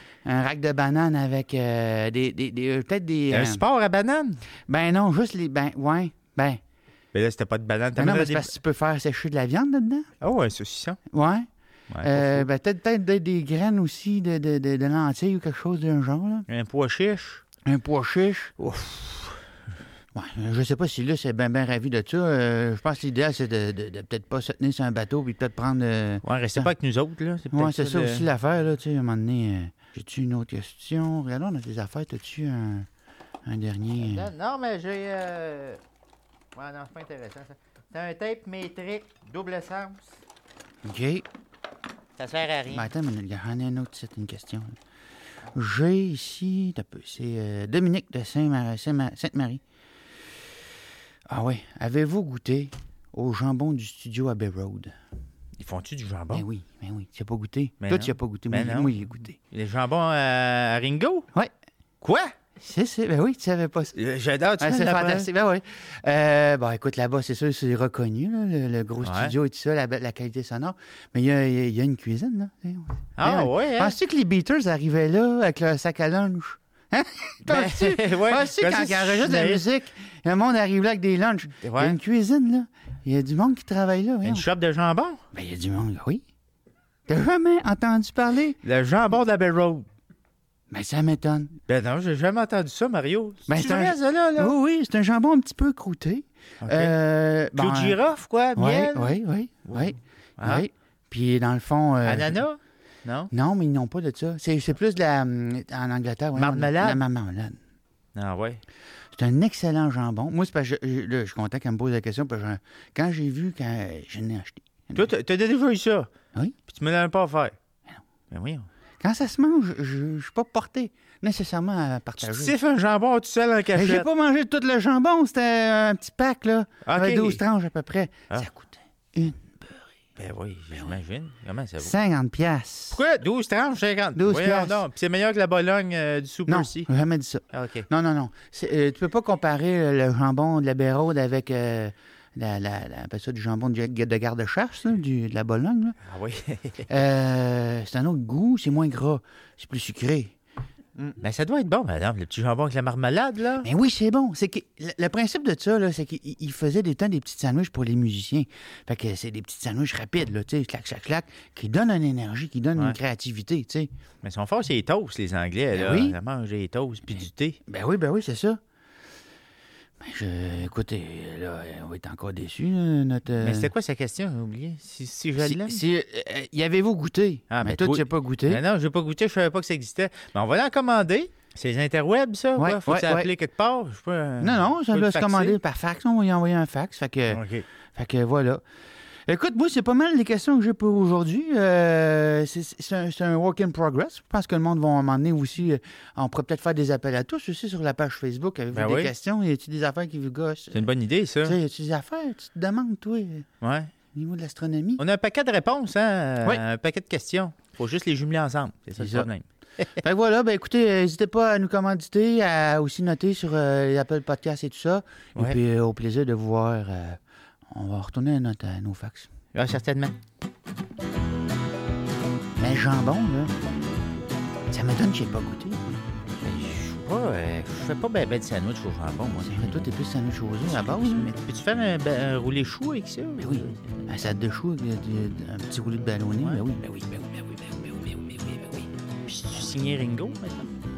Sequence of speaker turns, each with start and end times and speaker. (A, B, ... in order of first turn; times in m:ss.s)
0:00.2-0:03.6 A
0:03.3-0:04.4 B
0:04.7-0:06.6 A
0:07.1-0:08.5 B
0:08.0-0:10.1 A
0:10.2-0:11.0 B
0:11.1-0:11.5 A
0:11.9-0:12.4 B
0:12.0-0:16.4 A
0:16.5-0:17.4 B
0:17.6-0:18.5 A
0:18.6-0:19.4 B
0:20.1-0:26.7 A
0:26.2-0:28.2 B
0:27.5-0:32.9 A
0:33.4-0:34.3 A
0:34.0-0:35.8 B
0:36.5-0:40.1 B
0:40.8-0:41.2 A
0:42.2-0:42.9 B
0:42.7-0:44.8 A
0:45.5-0:49.6 A
0:51.3-0:54.9 A
0:55.6-0:56.4 B
0:56.3-0:59.4 A
0:57.8-0:58.9 B
0:59.5-1:01.2 B
1:02.0-1:02.3 B
1:02.6-1:04.0 A
1:03.9-1:05.3 B
1:04.6-1:24.4 A
1:09.0-1:09.3 B
1:13.2-1:14.0 B
1:17.4-1:19.6 B
1:21.6-1:22.0 B
1:24.2-1:25.2 B
1:25.3-1:26.2 A
1:27.1-1:28.6 A
1:28.6-1:29.8 B
1:30.7-1:31.6 A
1:31.7-1:34.5 B
1:33.5-1:38.0 A
1:36.6-1:36.9 B
1:37.5-1:39.2 B
1:38.6-1:42.4 A
1:39.7-1:40.6 B
1:42.0-1:43.3 B
1:43.3-1:47.6 A
1:46.3-1:47.0 B
1:48.1-1:48.6 B
1:49.1-1:55.1 A
1:54.9-1:56.1 B
1:56.7-1:57.5 B
1:58.3-1:58.7 B
1:59.0-2:02.5 A
2:02.2-2:04.0 B
2:03.7-2:09.8 A
2:06.8-2:07.4 B
2:10.2-2:11.9 B
2:11.8-2:13.0 A
2:12.9-2:16.9 B
2:14.2-2:14.8 A
2:16.5-2:26.0 A
2:17.5-2:17.9 B
2:26.1-2:26.9 B
2:26.9-2:30.3 A
2:31.0-2:33.7 B
2:33.6-2:43.9 A
2:44.2-2:47.6 B
2:45.7-2:46.2 A
2:47.6-2:48.6 A
2:50.0-2:53.7 A
2:53.4-2:55.8 B
2:55.4-2:58.6 A
2:57.5-3:05.6 B
3:02.6-3:03.3 A
3:04.4-3:07.4 A
3:07.3-3:07.6 B
3:08.0-3:08.6 A
3:09.3-3:20.9 A
3:18.7-3:19.1 B
3:20.7-3:21.6 B
3:21.4-3:23.4 A
3:23.6-3:23.9 B
3:24.1-3:25.0 A
3:25.0-3:29.4 B
3:29.0-3:29.3 A
3:30.0-3:37.2 A
3:37.7-3:39.3 A
3:39.5-3:40.1 B
3:42.6-3:43.5 A
3:44.7-3:46.0 A
3:46.4-3:49.9 B
3:49.4-3:51.3 A
3:50.7-3:54.1 B
3:53.4-3:57.4 A
3:59.2-4:00.7 B